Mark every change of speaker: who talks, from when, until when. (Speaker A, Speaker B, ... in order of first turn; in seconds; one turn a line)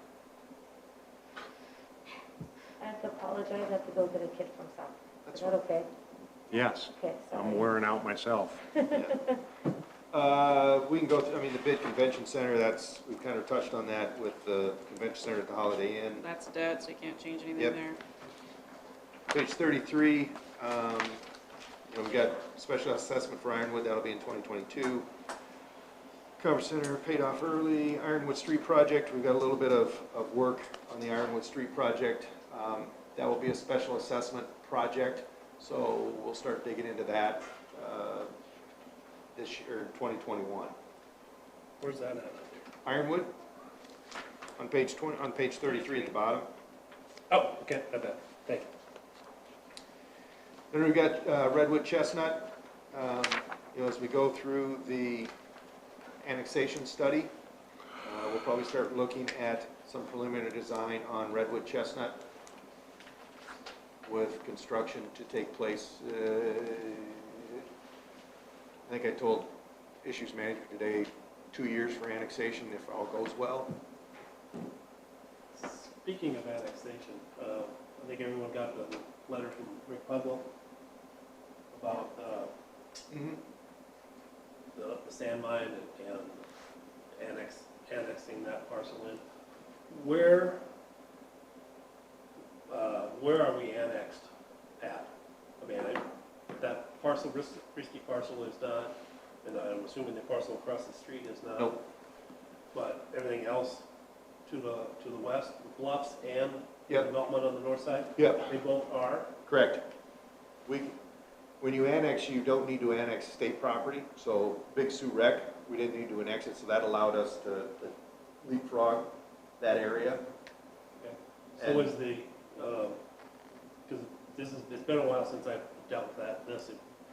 Speaker A: 2.8-5.9
Speaker B: 5.2-5.6
Speaker C: 6.5-8.6
Speaker A: 6.8-7.7
Speaker A: 8.7-9.1
Speaker B: 8.9-9.2
Speaker B: 10.1-16.3
Speaker D: 16.2-18.0
Speaker B: 19.3-21.2
Speaker B: 21.9-25.1
Speaker B: 26.4-38.3
Speaker B: 39.3-40.7
Speaker E: 41.8-42.7
Speaker B: 42.8-43.3
Speaker B: 44.6-46.5
Speaker D: 45.7-46.1
Speaker E: 47.3-48.7
Speaker B: 50.7-55.3
Speaker B: 56.2-57.3
Speaker B: 58.0-62.2
Speaker B: 64.0-67.6
Speaker B: 68.9-69.5
Speaker B: 70.0-73.8
Speaker E: 75.5-80.5
Speaker E: 81.7-82.5
Speaker B: 83.1-83.4
Speaker E: 84.7-86.4
Speaker E: 87.1-89.2
Speaker E: 89.9-90.6
Speaker E: 92.7-101.8
Speaker E: 102.7-103.8
Speaker E: 104.5-109.3
Speaker B: 108.2-108.5
Speaker B: 109.5-109.8
Speaker B: 110.7-111.0
Speaker B: 111.6-120.2
Speaker E: 121.0-123.0
Speaker B: 121.6-121.9
Speaker E: 123.9-126.8